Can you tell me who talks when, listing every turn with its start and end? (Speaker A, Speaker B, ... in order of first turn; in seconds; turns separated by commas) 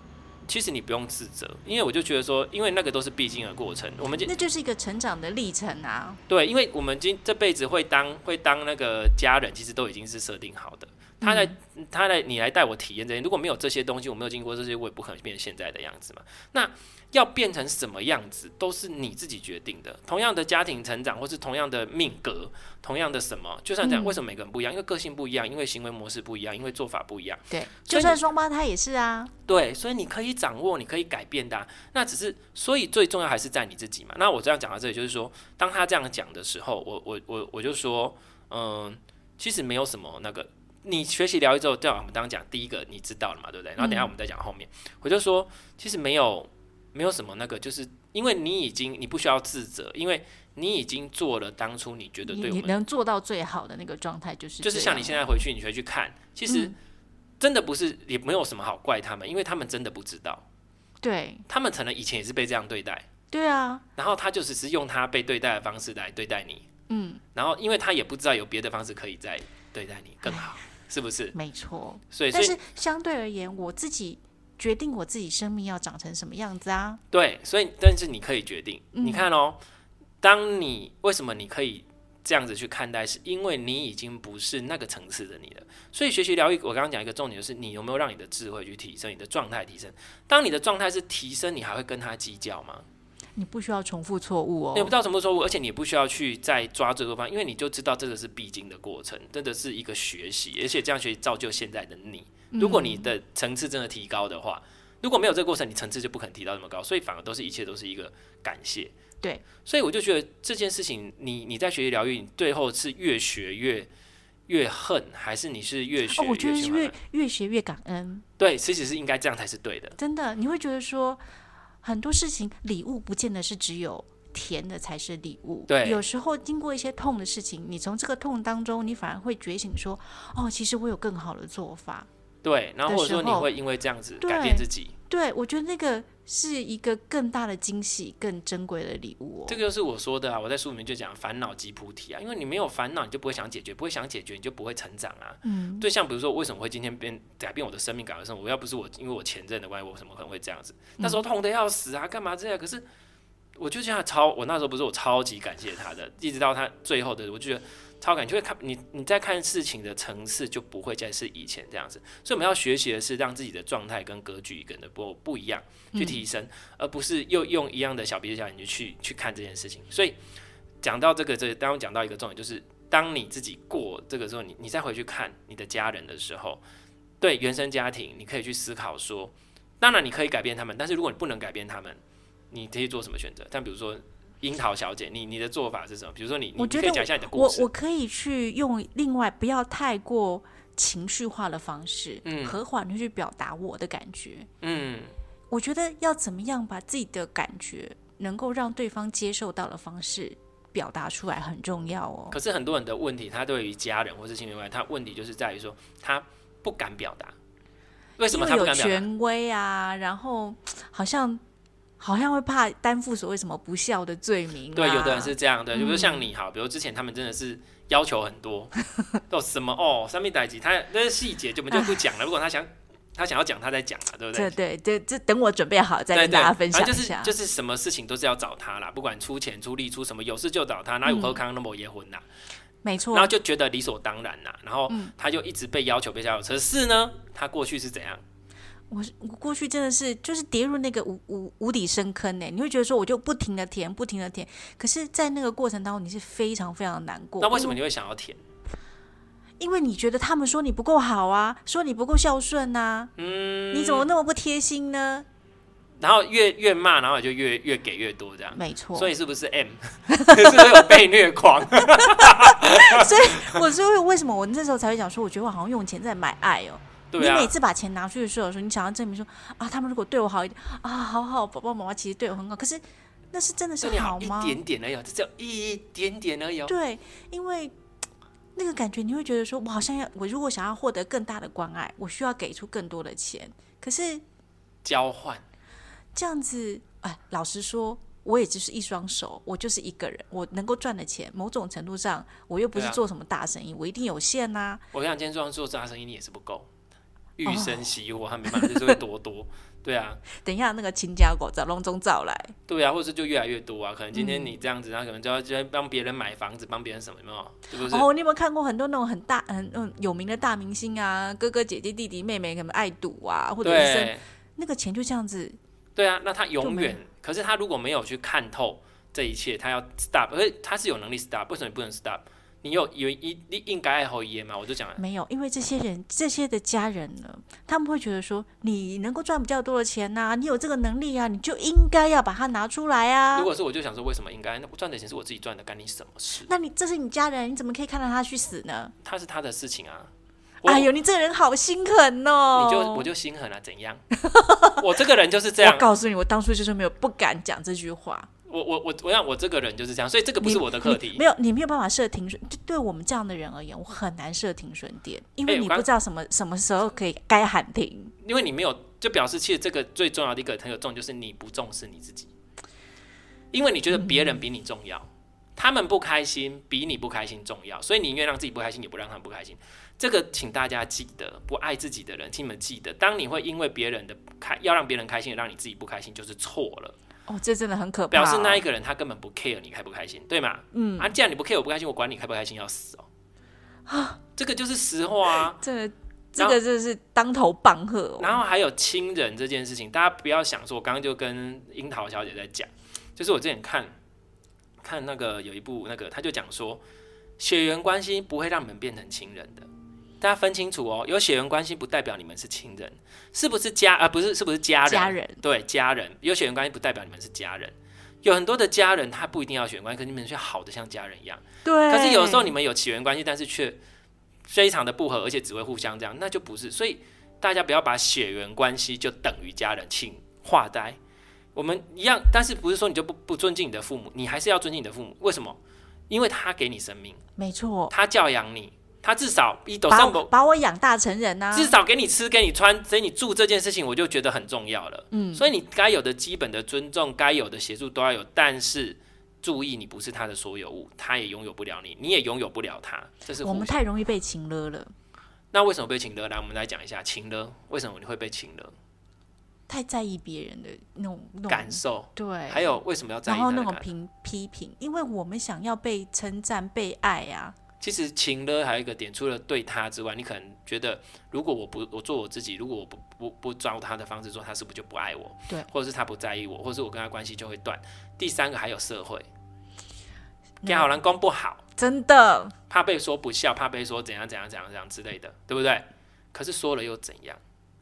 Speaker A: 0.4-4.3, Speaker B: 4.2-6.2, Speaker A: 6.3-28.2, Speaker B: 11.2-11.5, Speaker B: 23.8-24.2, Speaker B: 27.5-29.3, Speaker A: 29.5-52.7, Speaker B: 43.8-44.1, Speaker B: 52.2-55.2, Speaker A: 54.6-56.7, Speaker B: 56.5-56.7, Speaker A: 57.4-60.4, Speaker B: 61.0-61.4, Speaker A: 61.5-63.1, Speaker B: 63.3-63.8, Speaker A: 64.0-66.7, Speaker B: 66.9-67.2, Speaker A: 67.3-71.3, Speaker B: 71.3-77.0, Speaker A: 72.1-72.6, Speaker A: 77.1-79.6, Speaker B: 78.9-79.3, Speaker A: 80.2-92.9, Speaker B: 93.4-94.9, Speaker A: 94.7-108.9, Speaker B: 102.5-103.1, Speaker A: 109.6-113.9, Speaker A: 114.5-116.9, Speaker B: 116.1-118.2, Speaker A: 118.4-120.0, Speaker B: 120.0-121.2, Speaker B: 121.8-132.1, Speaker A: 125.7-126.0, Speaker A: 132.4-134.9, Speaker B: 132.9-133.5, Speaker B: 134.2-139.6, Speaker A: 139.5-152.8, Speaker B: 145.4-145.8, Speaker A: 153.6-170.2, Speaker B: 165.9-166.2, Speaker A: 170.8-176.6, Speaker A: 177.2-182.0, Speaker A: 182.5-187.7, Speaker B: 186.6-194.5, Speaker A: 192.2-192.6, Speaker A: 194.6-195.1, Speaker B: 195.5-202.3, Speaker A: 202.3-207.3, Speaker A: 208.2-209.1, Speaker B: 208.3-211.4, Speaker B: 212.0-216.2, Speaker A: 214.7-218.7, Speaker A: 219.3-224.5, Speaker B: 221.7-222.0, Speaker B: 224.3-227.3, Speaker A: 226.1-232.2, Speaker B: 231.0-231.4, Speaker B: 232.8-233.3, Speaker A: 233.1-238.2, Speaker B: 238.9-247.8, Speaker A: 247.4-248.4, Speaker B: 249.6-253.1, Speaker A: 253.2-254.1, Speaker B: 253.7-255.2, Speaker A: 256.0-263.5, Speaker B: 258.5-259.1, Speaker B: 260.1-260.9, Speaker B: 262.0-274.6, Speaker A: 267.1-267.5, Speaker A: 273.8-276.7, Speaker B: 276.7-277.7, Speaker B: 278.5-284.2, Speaker A: 284.8-285.4, Speaker B: 286.1-294.8, Speaker A: 292.7-293.0, Speaker A: 294.9-296.7, Speaker A: 297.4-300.2, Speaker B: 297.4-297.9, Speaker B: 298.5-298.9, Speaker B: 300.3-302.5, Speaker A: 302.7-308.1, Speaker B: 304.1-304.6, Speaker B: 307.8-315.6, Speaker A: 313.6-314.2, Speaker A: 315.9-325.0, Speaker B: 316.6-316.9, Speaker B: 325.0-333.5, Speaker A: 333.3-336.5, Speaker B: 336.4-338.9, Speaker A: 339.0-340.1, Speaker A: 340.6-340.9, Speaker B: 340.6-343.1, Speaker A: 342.5-344.0, Speaker B: 344.1-344.8, Speaker A: 344.8-345.9, Speaker B: 345.6-348.3, Speaker A: 348.5-351.2, Speaker B: 350.4-358.1, Speaker A: 355.4-355.9, Speaker A: 358.2-362.3, Speaker A: 363.5-376.9, Speaker B: 363.9-364.4, Speaker B: 377.3-378.6, Speaker A: 378.1-383.1, Speaker B: 380.7-381.1, Speaker B: 383.9-384.2, Speaker A: 384.4-385.6, Speaker B: 385.5-388.4, Speaker A: 388.2-393.9, Speaker A: 394.8-396.8, Speaker A: 397.4-399.7, Speaker A: 400.2-413.8, Speaker B: 404.9-405.4, Speaker B: 411.6-412.5, Speaker A: 414.5-421.0, Speaker A: 421.5-425.6, Speaker A: 426.1-427.2, Speaker B: 427.4-427.9, Speaker A: 427.9-430.3, Speaker B: 429.9-431.7, Speaker A: 431.5-443.8, Speaker B: 435.1-435.5, Speaker B: 443.4-444.9, Speaker A: 445.5-448.8, Speaker B: 449.7-457.5, Speaker A: 451.5-453.9, Speaker A: 457.8-469.3, Speaker B: 470.6-471.0, Speaker A: 470.6-471.6, Speaker B: 471.8-472.5, Speaker A: 472.7-477.4